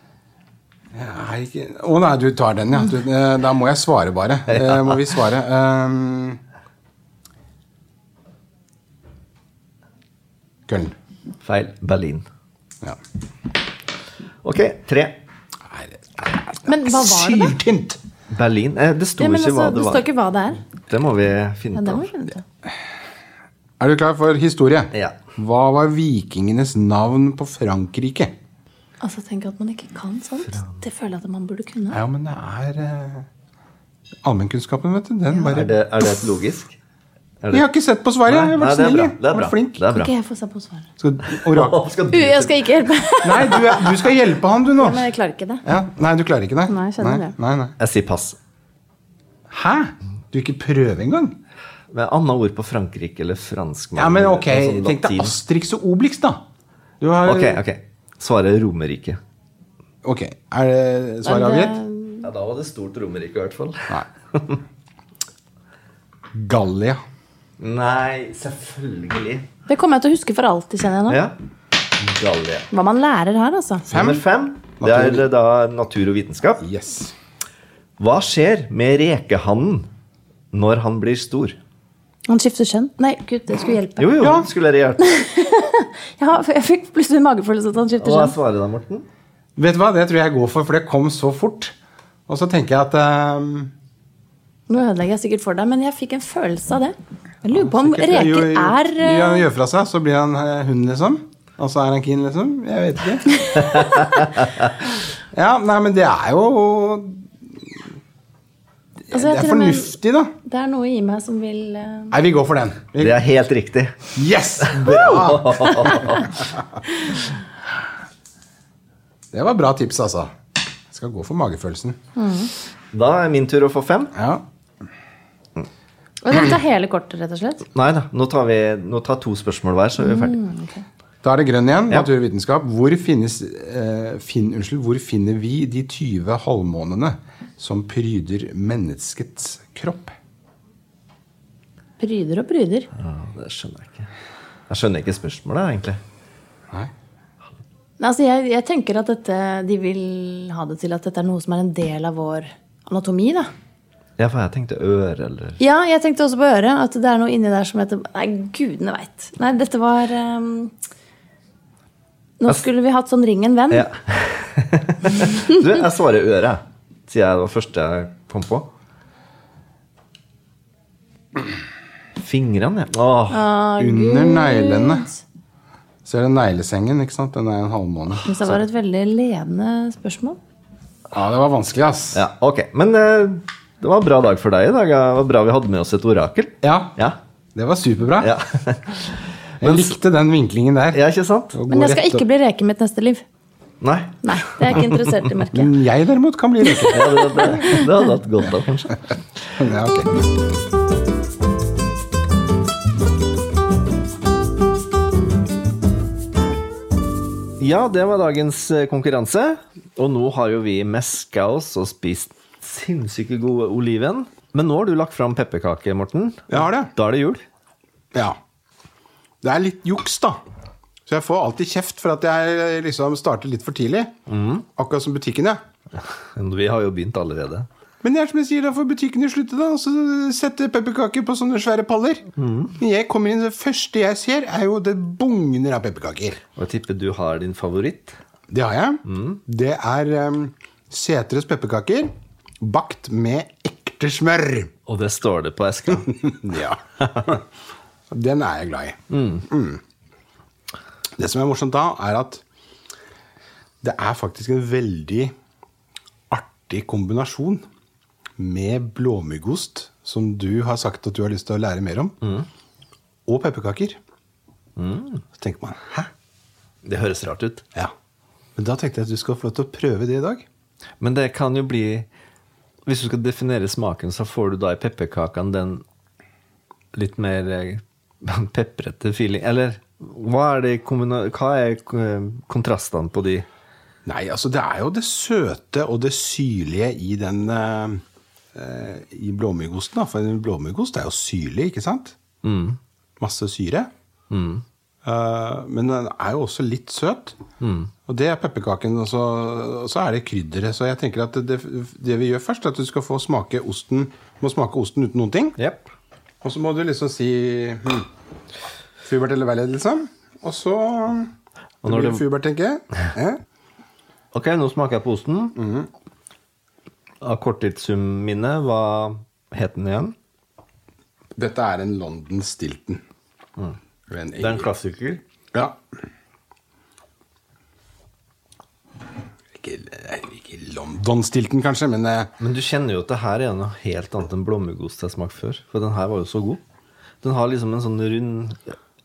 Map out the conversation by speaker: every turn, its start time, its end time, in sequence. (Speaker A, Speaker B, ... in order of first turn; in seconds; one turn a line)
Speaker A: 0.9-6.4
Speaker B: 4.5-5.0
Speaker A: 10.7-10.9
Speaker B: 11.4-12.3
Speaker B: 14.4-15.2
Speaker A: 15.7-18.0
Speaker C: 16.7-17.6
Speaker B: 18.3-20.1
Speaker C: 19.2-20.6
Speaker B: 20.9-22.1
Speaker C: 21.8-22.4
Speaker A: 23.8-28.4
Speaker C: 29.0-32.0
Speaker B: 30.5-30.8
Speaker A: 31.9-33.3
Speaker A: 34.2-35.7
Speaker B: 35.4-36.8
Speaker B: 37.4-37.7
Speaker A: 37.5-39.8
Speaker B: 38.3-40.1
Speaker C: 39.9-40.9
Speaker A: 41.0-41.9
Speaker B: 41.2-42.7
Speaker C: 42.1-44.0
Speaker A: 43.2-45.1
Speaker C: 44.8-45.6
Speaker A: 45.6-47.8
Speaker C: 46.7-47.3
Speaker B: 47.8-48.4
Speaker A: 49.5-51.4
Speaker B: 51.9-55.4
Speaker A: 54.0-56.4
Speaker A: 57.0-57.6
Speaker B: 57.2-59.2
Speaker A: 60.0-61.8
Speaker C: 61.2-62.2
Speaker B: 62.2-64.6
Speaker A: 66.3-67.0
Speaker B: 67.6-69.5
Speaker C: 69.7-71.2
Speaker B: 71.1-71.4
Speaker B: 72.0-72.7
Speaker C: 72.7-73.9
Speaker A: 73.9-74.2
Speaker B: 73.9-76.6
Speaker A: 74.8-75.3
Speaker A: 76.6-77.1
Speaker B: 78.0-79.9
Speaker B: 80.5-81.6
Speaker C: 82.3-84.2
Speaker B: 84.0-85.1
Speaker A: 84.2-84.5
Speaker C: 85.0-88.4
Speaker B: 88.0-89.1
Speaker A: 89.6-91.7
Speaker A: 92.3-93.7
Speaker C: 94.7-99.5
Speaker A: 97.5-103.4
Speaker C: 103.4-104.0
Speaker B: 103.6-104.1
Speaker A: 105.3-107.7
Speaker A: 109.1-110.3
Speaker C: 109.1-112.2
Speaker A: 112.1-113.2
Speaker B: 113.0-116.4
Speaker A: 114.2-116.8
Speaker A: 119.3-120.3
Speaker A: 120.9-122.0
Speaker C: 122.2-122.5
Speaker B: 122.9-124.1
Speaker A: 124.1-124.5
Speaker C: 126.2-127.7
Speaker B: 127.7-130.4
Speaker C: 130.0-130.8
Speaker A: 131.2-140.2
Speaker C: 142.0-142.9
Speaker B: 142.9-144.1
Speaker B: 144.7-146.0
Speaker C: 148.0-153.5
Speaker B: 154.2-155.6
Speaker C: 155.6-160.7
Speaker C: 162.4-163.9
Speaker B: 163.7-168.7
Speaker B: 172.2-173.4
Speaker C: 173.3-175.2
Speaker A: 173.8-175.1
Speaker A: 176.1-178.6
Speaker C: 178.2-180.4
Speaker A: 181.1-182.2
Speaker B: 182.1-187.2
Speaker A: 186.6-187.0
Speaker A: 187.6-188.3
Speaker B: 188.2-189.9
Speaker A: 189.6-192.2
Speaker B: 190.9-191.6
Speaker C: 191.7-193.2
Speaker B: 193.8-195.1
Speaker C: 194.2-195.8
Speaker A: 195.5-197.6
Speaker C: 196.8-197.9
Speaker B: 196.9-199.0
Speaker A: 199.6-200.1
Speaker B: 207.6-217.4
Speaker A: 216.5-216.9
Speaker A: 218.1-218.4
Speaker A: 219.4-220.4
Speaker A: 221.1-224.2
Speaker B: 224.3-224.7
Speaker A: 224.8-225.6
Speaker B: 226.0-227.7
Speaker A: 228.0-236.4
Speaker B: 232.4-232.8
Speaker B: 236.6-238.2
Speaker A: 238.5-244.7
Speaker B: 239.1-239.4
Speaker B: 244.9-246.3
Speaker A: 245.9-247.4
Speaker A: 248.1-249.8
Speaker B: 249.1-249.4
Speaker A: 251.2-252.4
Speaker A: 253.8-255.3
Speaker A: 256.3-257.6
Speaker A: 258.4-262.1
Speaker B: 262.2-262.5
Speaker A: 263.3-264.0
Speaker B: 264.8-265.2
Speaker A: 265.4-266.1
Speaker B: 266.8-267.6
Speaker A: 268.6-270.5
Speaker B: 271.0-272.1
Speaker B: 272.9-275.8
Speaker B: 276.9-283.5
Speaker A: 284.1-288.0
Speaker A: 288.6-292.2
Speaker B: 292.4-292.8
Speaker A: 293.2-293.9
Speaker B: 294.3-294.6
Speaker A: 295.0-297.4
Speaker B: 297.6-297.9
Speaker A: 298.1-305.6
Speaker B: 305.6-305.9
Speaker A: 306.4-308.1
Speaker A: 309.0-311.3
Speaker B: 311.8-312.2
Speaker A: 311.8-313.4
Speaker B: 314.3-315.6
Speaker A: 315.6-315.9
Speaker B: 317.2-320.1
Speaker A: 321.4-323.0
Speaker A: 324.1-324.7
Speaker B: 324.4-325.2
Speaker A: 325.5-325.8
Speaker A: 329.6-332.3
Speaker B: 332.4-336.6
Speaker B: 337.2-338.8